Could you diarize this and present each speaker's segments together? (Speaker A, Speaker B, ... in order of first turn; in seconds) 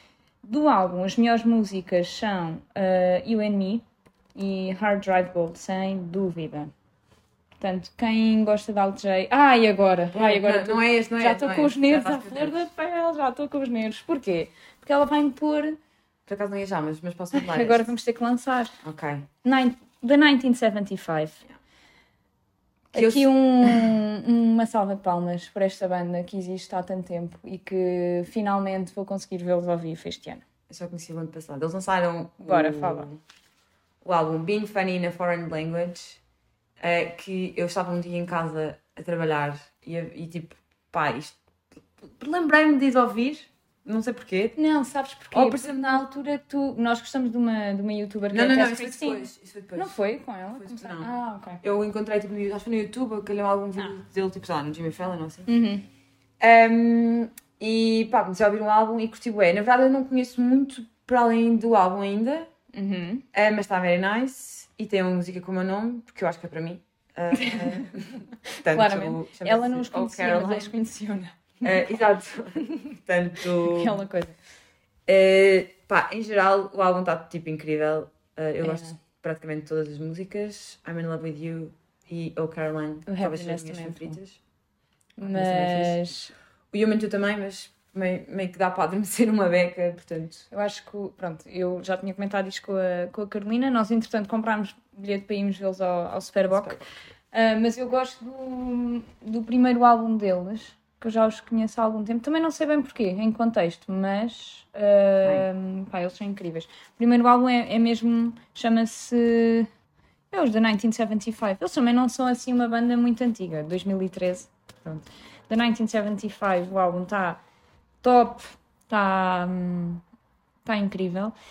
Speaker A: 0.4-3.8, 4.3-6.7, 7.6-15.8, 17.3-18.8, 19.4-21.4, 22.9-30.4, 32.4-33.1, 44.6-51.6, 55.5-55.9, 62.7-63.2, 67.3-67.9, 68.5-71.9, 73.6-74.4, 78.6-79.0, 83.1-84.2, 85.2-86.3, 90.5-109.7, 110.3-117.4, 118.0-120.0, 120.7-121.3
Speaker B: 10.1-12.6, 16.3-17.9, 18.8-19.3, 22.9-24.0, 30.7-33.2, 34.0-36.2, 36.8-41.4, 42.0-44.6, 45.3-46.1, 48.3-50.0, 50.5-51.1, 51.6-55.5, 56.4-62.5, 63.3-70.8, 71.6-74.0, 75.1-84.4, 85.2-86.0, 86.7-90.5, 96.5-96.9